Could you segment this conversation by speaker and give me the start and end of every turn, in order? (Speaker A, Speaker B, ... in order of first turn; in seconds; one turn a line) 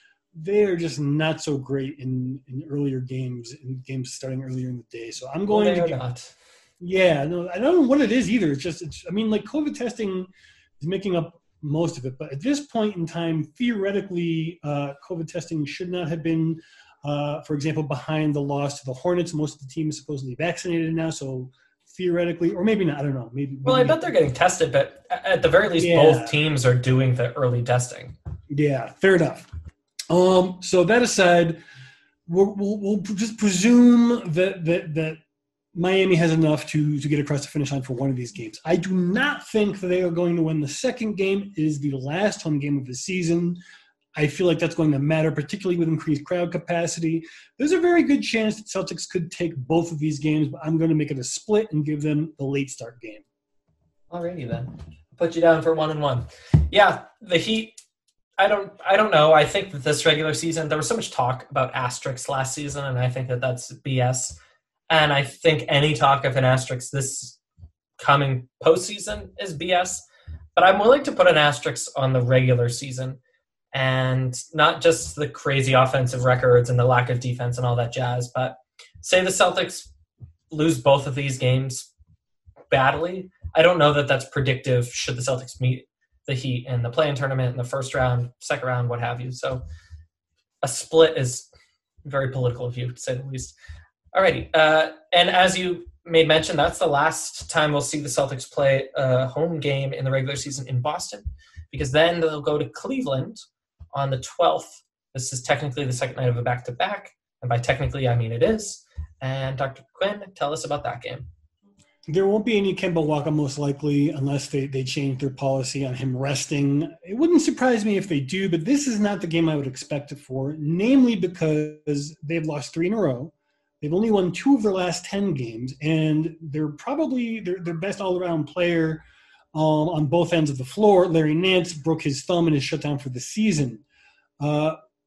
Speaker A: 0.3-6.0
Speaker B: 5.5-6.3
Speaker A: 6.8-10.3
Speaker A: 10.8-24.1
Speaker B: 23.6-28.1
Speaker A: 25.8-26.4
Speaker A: 28.5-29.5
Speaker A: 30.1-31.6
Speaker A: 32.3-35.2
Speaker A: 35.7-43.6
Speaker A: 44.1-53.2
Speaker B: 54.1-57.7
Speaker B: 58.4-64.3
Speaker B: 64.9-67.4
Speaker B: 68.0-70.0
Speaker B: 70.5-73.2
Speaker B: 73.7-79.9
Speaker B: 80.5-81.9
Speaker B: 82.7-89.6
Speaker B: 90.6-91.5
Speaker B: 92.0-93.5
Speaker B: 94.1-103.4
Speaker B: 103.9-111.3
Speaker A: 112.1-129.0
Speaker A: 129.5-133.8
Speaker A: 134.4-134.8